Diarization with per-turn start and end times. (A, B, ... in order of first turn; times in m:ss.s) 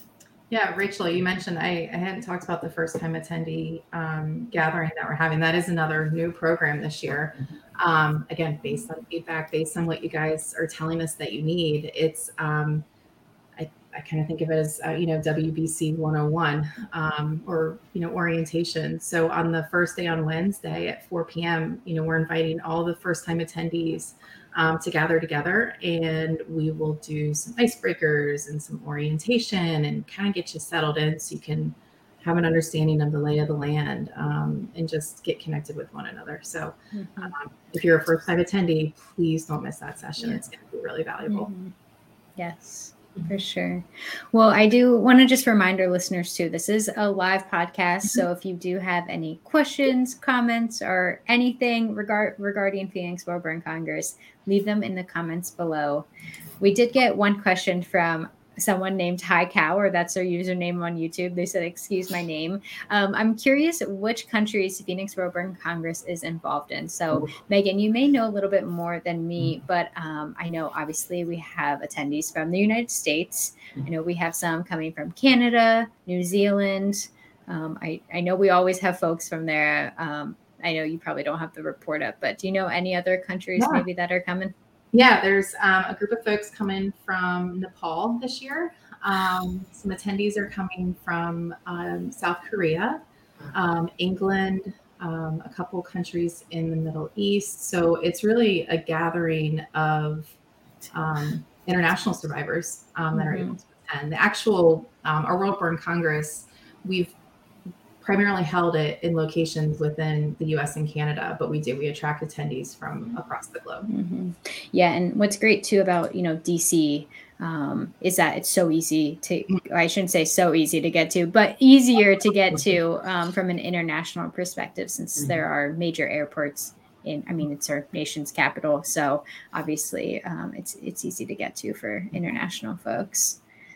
0:00.5-0:12.8 A
0:13.6-0:41.5 A
0:36.9-0:37.3 B
0:41.3-0:41.7 B
0:42.4-0:56.1 B
0:56.6-1:24.5 B
1:23.6-1:23.8 A
1:24.9-1:33.0 A
1:33.5-1:40.3 A
1:40.9-1:47.1 A
1:43.2-1:43.5 B
1:48.0-1:53.9 A
1:53.9-2:13.4 B